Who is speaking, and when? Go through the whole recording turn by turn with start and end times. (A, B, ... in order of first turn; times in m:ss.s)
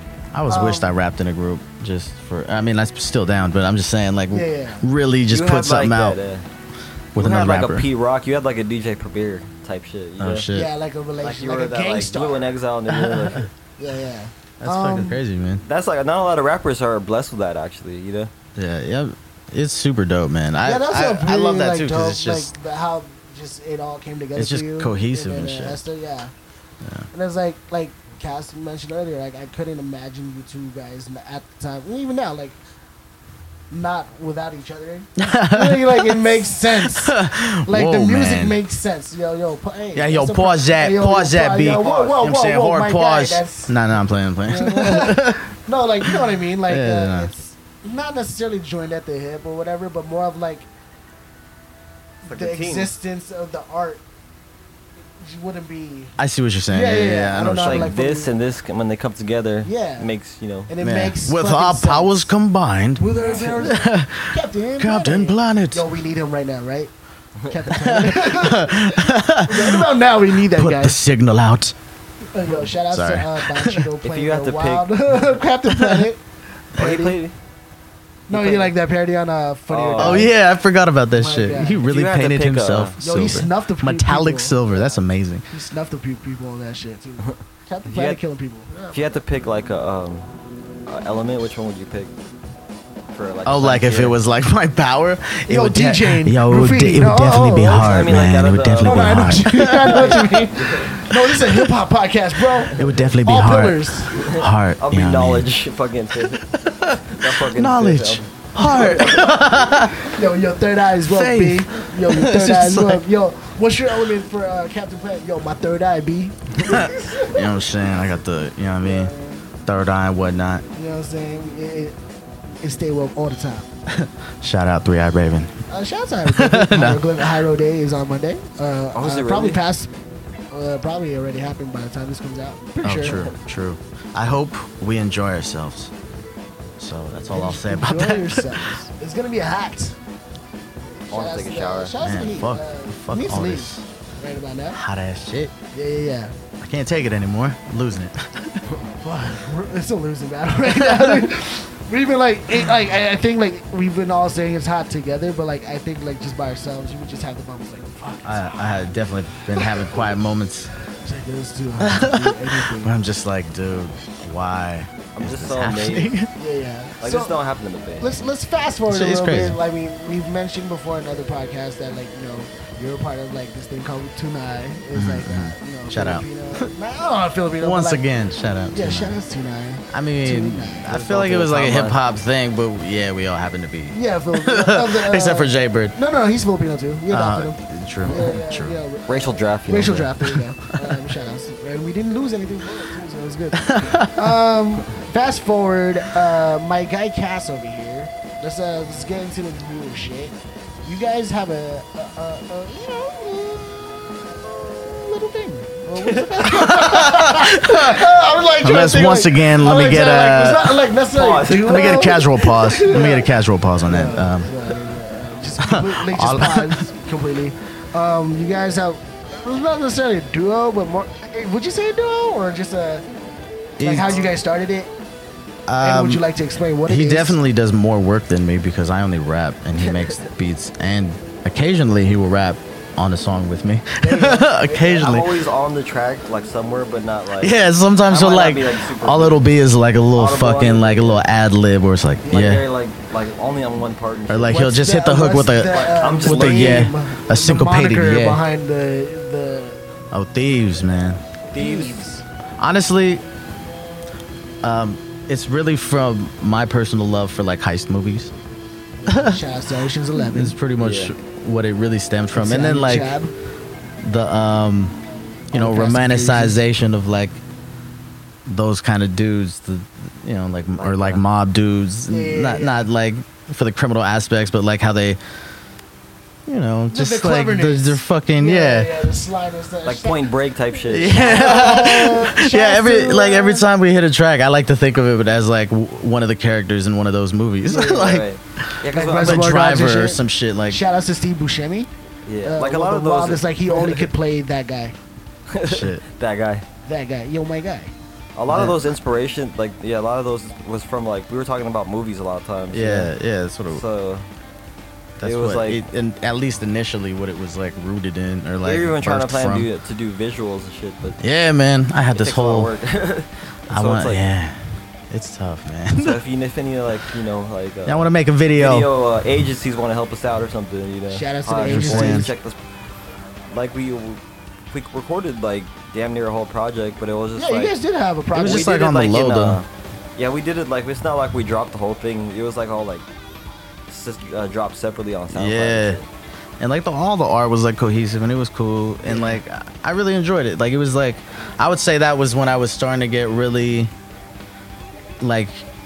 0:00.3-0:06.2 A
0:00.5-0:01.0 B
0:04.3-0:04.9 B
0:05.3-0:06.4 C
0:07.1-0:07.9 A
0:07.2-0:10.5 C
0:10.2-0:10.7 A
0:10.5-0:12.4 B
0:11.2-0:13.5 C
0:12.9-0:13.5 A
0:13.8-0:15.2 B
0:14.6-0:15.6 A
0:15.6-0:18.3 C
0:18.6-0:22.5 A
0:20.6-0:26.3 B
0:24.3-0:25.8 A
0:26.8-0:27.1 A
0:27.1-0:32.6 B
0:33.7-0:43.8 B
0:35.2-0:38.6 A
0:39.9-0:45.5 A
0:41.6-0:42.2 C
0:44.4-0:50.7 B
0:46.0-0:47.3 A
0:52.2-0:54.0 B
0:52.3-0:52.9 C
0:55.2-0:56.1 B
0:56.2-0:57.9 A
0:56.7-0:58.3 B
0:57.6-1:00.7 C
0:59.6-1:00.1 B
1:00.7-1:02.3 B
1:00.8-1:05.8 A
1:03.0-1:06.9 B
1:03.2-1:03.5 C
1:07.5-1:11.0 B
1:07.7-1:11.7 A
1:12.3-1:16.2 B
1:12.9-1:13.9 A
1:14.0-1:14.9 C
1:15.7-1:16.0 A
1:16.7-1:17.2 B
1:16.8-1:17.3 C
1:18.3-1:20.3 B
1:18.3-1:18.7 C
1:19.7-1:20.3 C
1:20.0-1:25.4 A
1:21.1-1:21.8 B
1:21.8-1:23.0 C
1:23.0-1:25.0 B
1:25.5-1:29.1 B
1:27.2-1:28.2 C
1:28.9-1:30.2 C
1:30.9-1:32.1 C
1:33.1-1:34.2 C
1:33.4-1:40.4 A
1:35.5-1:38.0 B
1:37.7-1:40.8 C
1:38.8-1:44.2 B
1:41.1-1:41.7 A
1:42.7-1:45.5 A
1:42.8-1:43.1 C
1:44.2-1:46.4 C
1:46.5-1:50.1 A
1:47.1-1:49.3 C
1:48.6-1:57.6 B
1:51.0-1:53.0 A
1:56.6-1:59.1 A
1:58.8-1:59.4 B
1:59.6-2:00.6 A
2:00.7-2:02.0 B
2:02.6-2:03.7 B
2:03.9-2:05.5 A
2:05.7-2:09.9 B
2:06.2-2:07.2 A
2:08.9-2:09.6 C
2:10.5-2:13.2 B
2:12.8-2:15.9 A
2:13.0-2:13.3 C
2:16.8-2:18.7 A
2:17.3-2:20.0 B
2:21.1-2:24.8 B
2:21.1-2:22.0 C
2:22.0-2:23.8 A
2:24.7-2:25.5 A
2:25.7-2:26.3 B
2:26.6-2:28.6 A
2:28.7-2:38.9 B
2:30.6-2:31.3 A
2:38.2-2:40.7 A
2:39.6-2:40.1 B
2:41.0-2:42.9 B
2:41.8-2:46.3 A
2:45.2-2:46.1 C
2:46.4-2:47.3 B
2:47.0-2:48.2 C
2:48.0-2:58.1 B
2:48.9-2:49.6 A
2:54.9-2:56.7 A
2:57.6-2:59.2 A
2:58.7-3:00.9 B
2:59.9-3:05.9 A
3:00.9-3:02.0 C
3:03.9-3:43.0 B
3:07.1-3:08.8 A
3:09.1-3:10.1 C
3:13.6-3:14.4 A
3:26.4-3:30.9 A
3:31.1-3:32.2 C
3:31.6-3:34.6 A
3:35.6-3:36.8 A
3:43.8-3:44.2 A
3:43.8-3:44.9 B
3:45.7-3:46.2 A
3:45.8-3:47.4 B
3:46.8-3:55.3 A
3:49.8-3:50.3 C
3:54.0-3:55.1 B
3:54.8-3:57.6 C
3:57.4-4:02.7 A
3:58.1-3:59.4 C
4:00.1-4:01.2 C
4:02.2-4:04.6 C
4:04.3-4:08.4 A
4:04.5-4:09.8 B
4:05.7-4:06.9 C
4:10.1-4:11.2 A
4:11.5-4:12.0 C
4:11.5-4:12.2 B
4:12.6-4:13.2 A
4:14.6-4:18.3 A
4:19.0-4:20.6 B
4:19.1-4:19.4 A
4:20.2-4:23.1 A
4:20.8-4:21.1 C
4:22.3-4:23.3 B
4:24.0-4:25.0 A
4:25.5-4:27.4 A
4:25.5-4:26.6 B
4:28.5-4:35.2 A
4:30.8-4:31.2 C
4:32.1-4:32.9 B
4:36.5-4:38.9 A
4:36.9-4:40.3 B
4:39.8-4:41.8 C
4:40.9-4:50.8 A
4:41.0-4:43.7 B
4:47.7-4:49.7 C
4:48.9-4:51.9 B
4:52.2-4:54.1 C
4:52.4-4:55.0 B
4:55.5-4:56.6 C
4:55.6-4:56.0 A
4:56.8-4:57.9 B
4:58.4-5:03.1 C
4:58.5-4:58.8 B
5:02.7-5:03.8 A
5:03.7-5:04.2 C
5:05.2-5:09.7 A
5:05.2-5:05.8 C
5:08.6-5:11.2 C
5:11.2-5:12.7 A
5:12.1-5:14.2 C
5:13.7-5:16.2 A
5:16.0-5:22.6 C
5:17.8-5:18.9 A
5:21.1-5:22.3 B
5:21.6-5:22.3 A
5:23.5-5:27.7 C
5:27.4-5:28.7 B
5:28.3-5:29.6 A
5:28.3-5:33.0 C
5:33.9-5:36.1 C
5:35.3-5:36.0 A
5:36.6-5:43.9 A
5:39.1-5:39.4 B
5:45.2-5:45.6 A